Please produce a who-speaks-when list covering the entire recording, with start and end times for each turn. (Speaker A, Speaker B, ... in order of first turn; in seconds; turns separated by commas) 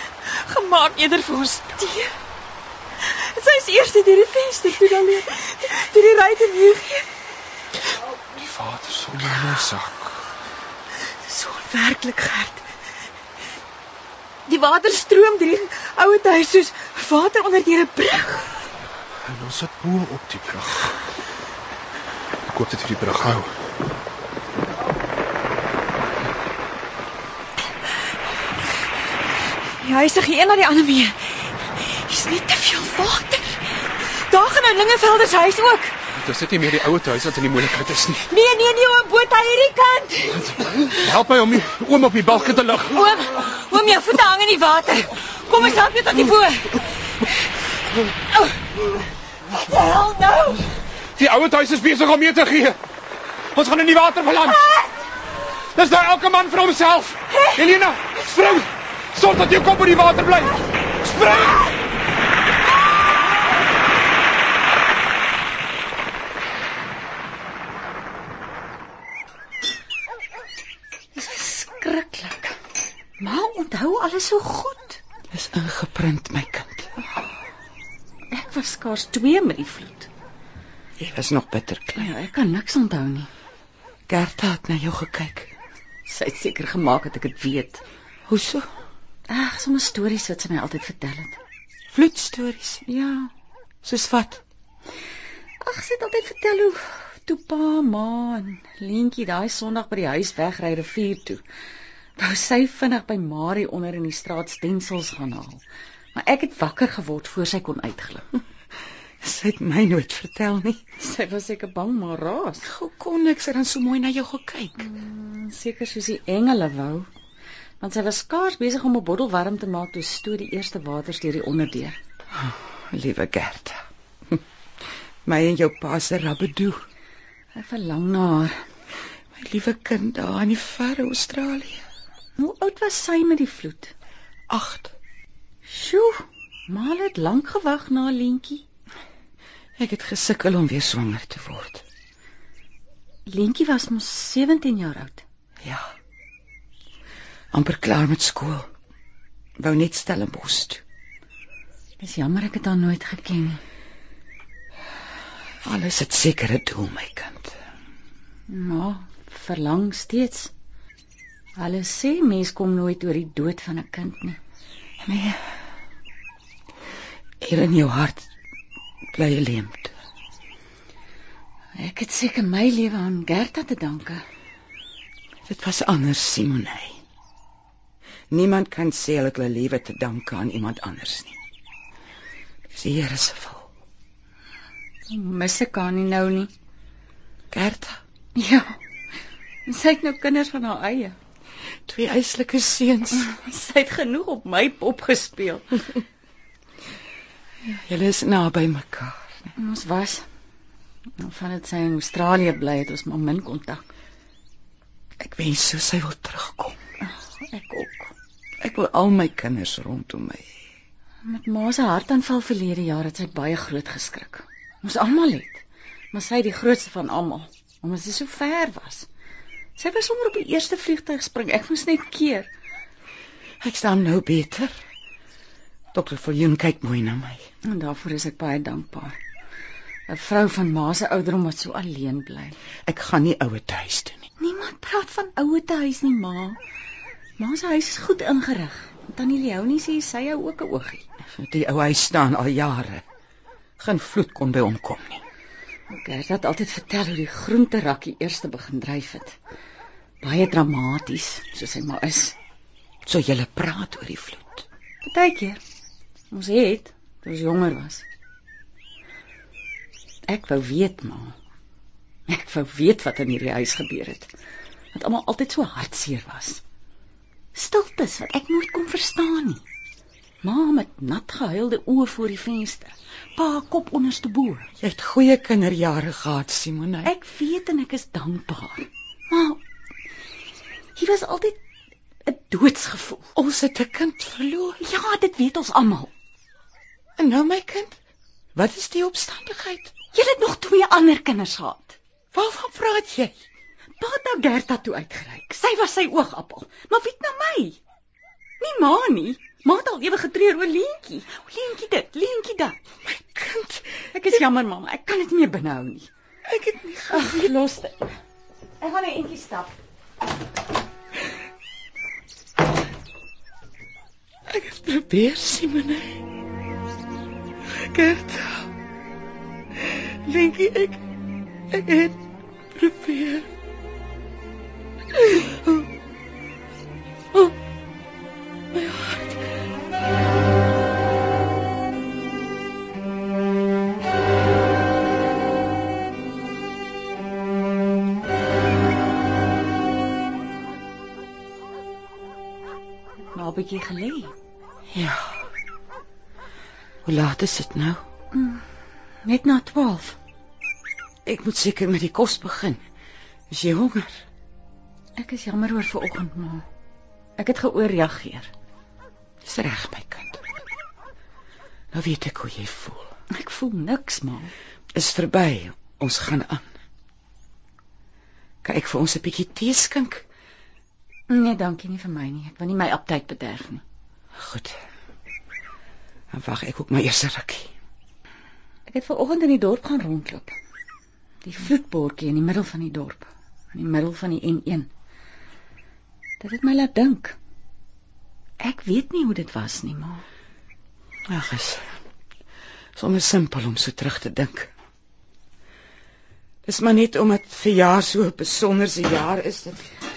Speaker A: 0.2-2.1, Speaker A: 3.0-7.1, Speaker B: 8.3-10.2, Speaker A: 11.2-12.6, Speaker A: 14.5-18.6, Speaker B: 19.2-21.0, Speaker B: 22.4-23.5, Speaker A: 29.8-35.9, Speaker B: 36.1-38.3, Speaker A: 38.3-40.4, Speaker B: 40.3-43.0, Speaker A: 42.9-46.8, Speaker A: 49.6-50.6, Speaker B: 51.1-52.8, Speaker B: 53.5-54.6, Speaker B: 55.8-61.6, Speaker C: 71.1-72.5, Speaker C: 73.2-75.0, Speaker D: 75.3-76.9, Speaker C: 78.3-80.1, Speaker D: 81.0-82.1, Speaker C: 82.0-83.3, Speaker D: 84.1-85.5, Speaker C: 86.1-87.8, Speaker D: 88.3-88.7, Speaker C: 89.3-91.4, Speaker D: 91.9-92.8, Speaker C: 92.9-93.3, Speaker D: 93.8-94.4, Speaker C: 95.6-101.4, Speaker C: 102.2-105.6, Speaker C: 106.1-108.3, Speaker D: 109.2-110.8, Speaker C: 111.0-112.7, Speaker D: 112.6-114.9, Speaker C: 114.8-117.1, Speaker C: 117.8-122.0, Speaker D: 122.3-124.4, Speaker D: 125.2-126.8, Speaker C: 127.5-128.6, Speaker D: 129.3-131.8, Speaker C: 132.4-133.9, Speaker D: 134.5-134.9, Speaker C: 135.7-138.6, Speaker D: 139.8-141.8, Speaker C: 143.2-145.2, Speaker D: 145.6-145.9, Speaker D: 147.5-148.7, Speaker D: 149.6-150.8, Speaker C: 152.0-153.6, Speaker D: 155.6-157.6, Speaker C: 158.5-160.5, Speaker C: 161.6-164.4, Speaker D: 165.0-165.6, Speaker D: 167.4-168.3, Speaker D: 169.1-169.9, Speaker C: 171.8-174.2, Speaker D: 175.4-177.0, Speaker D: 178.3-181.4, Speaker D: 182.7-183.7, Speaker C: 185.1-186.5, Speaker D: 187.5-188.0, Speaker C: 188.3-188.8, Speaker C: 189.7-191.2, Speaker D: 191.9-193.3, Speaker C: 193.1-195.8, Speaker D: 197.6-199.5, Speaker C: 199.6-200.2, Speaker C: 201.2-203.8, Speaker D: 205.2-206.8, Speaker C: 207.0-208.1, Speaker D: 208.6-210.5, Speaker C: 211.2-219.1, Speaker C: 219.8-222.5, Speaker D: 223.6-224.8, Speaker D: 225.9-227.5, Speaker C: 227.6-229.2, Speaker C: 230.1-232.6, Speaker D: 232.8-234.2, Speaker C: 234.4-236.6, Speaker C: 237.4-241.0, Speaker D: 241.2-243.0, Speaker D: 243.8-245.2, Speaker C: 245.9-249.4, Speaker C: 250.2-252.3, Speaker D: 253.0-254.7, Speaker C: 255.0-255.6, Speaker C: 256.3-258.0, Speaker C: 260.3-261.3, Speaker C: 262.3-264.3, Speaker C: 264.9-266.6, Speaker C: 267.5-269.6, Speaker C: 270.4-274.7, Speaker D: 274.8-277.1, Speaker C: 277.0-279.6, Speaker C: 280.9-281.6, Speaker C: 282.2-283.3, Speaker D: 283.4-284.8, Speaker C: 284.8-286.1, Speaker D: 287.2-288.0, Speaker D: 288.5-289.9, Speaker C: 290.1-292.0, Speaker D: 292.3-293.4, Speaker C: 294.0-297.8, Speaker C: 298.6-302.8, Speaker D: 303.0-304.1, Speaker C: 304.1-306.1, Speaker D: 306.4-307.5, Speaker C: 307.1-308.1, Speaker C: 308.8-309.7, Speaker D: 314.5-316.2, Speaker D: 317.7-318.7, Speaker D: 319.8-321.0, Speaker D: 321.7-322.2, Speaker D: 322.7-323.5, Speaker D: 325.1-325.8, Speaker D: 328.7-329.5, Speaker C: 343.3-344.3, Speaker D: 344.9-345.4, Speaker D: 347.0-348.0, Speaker C: 348.3-348.6, Speaker C: 349.2-350.2, Speaker D: 351.2-352.8, Speaker D: 353.5-354.2, Speaker C: 355.2-356.6, Speaker C: 357.4-358.5, Speaker D: 359.4-360.4, Speaker D: 361.9-363.1, Speaker C: 363.3-364.5, Speaker D: 364.9-366.6, Speaker D: 368.6-370.2, Speaker C: 371.3-373.8, Speaker D: 374.3-374.8, Speaker D: 376.3-377.7, Speaker C: 378.9-380.5, Speaker C: 381.4-384.9, Speaker C: 386.4-387.4, Speaker C: 388.6-390.2, Speaker D: 391.3-391.9, Speaker D: 392.9-394.7, Speaker D: 396.6-399.9